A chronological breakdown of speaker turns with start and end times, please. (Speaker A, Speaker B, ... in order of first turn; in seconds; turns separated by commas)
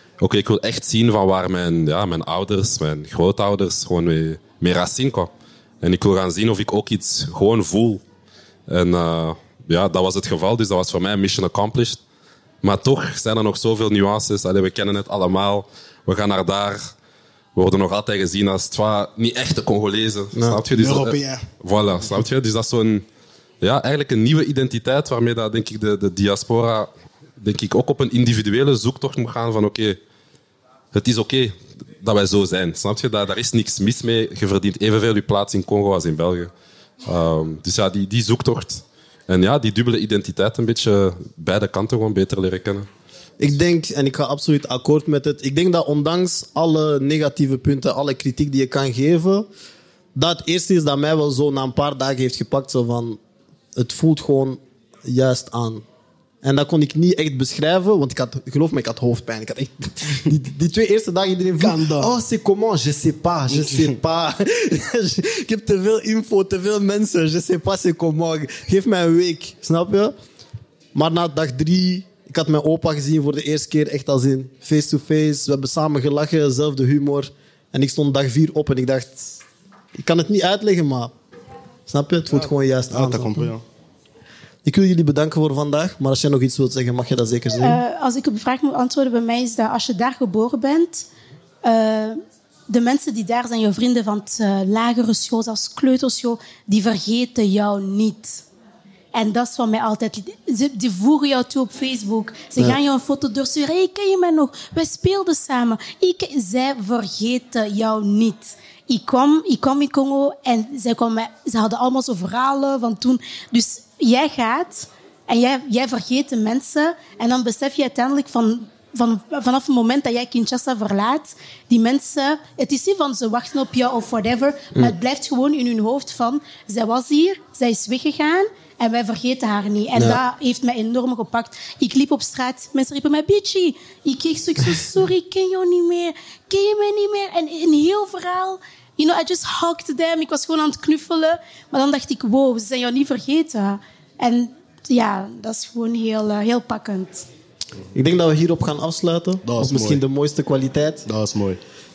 Speaker A: 0.2-5.3, Speaker A: 5.8-8.0, Speaker A: 8.7-12.0, Speaker A: 12.6-16.8, Speaker A: 17.6-23.0, Speaker B: 20.3-20.6, Speaker C: 20.8-21.4, Speaker A: 23.6-30.0, Speaker A: 30.9-36.5, Speaker A: 37.1-42.9, Speaker B: 43.4-49.5, Speaker B: 50.1-53.2, Speaker B: 53.8-55.8, Speaker B: 56.4-70.1, Speaker C: 61.6-62.1, Speaker C: 63.5-63.9, Speaker B: 70.9-79.4, Speaker B: 80.0-81.1, Speaker B: 81.9-83.5, Speaker C: 82.9-83.6, Speaker B: 84.6-87.8, Speaker D: 87.6-91.1, Speaker D: 91.6-98.5, Speaker D: 99.1-147.3, Speaker B: 129.9-130.2, Speaker B: 147.9-151.1, Speaker C: 149.5-150.0, Speaker C: 151.1-151.6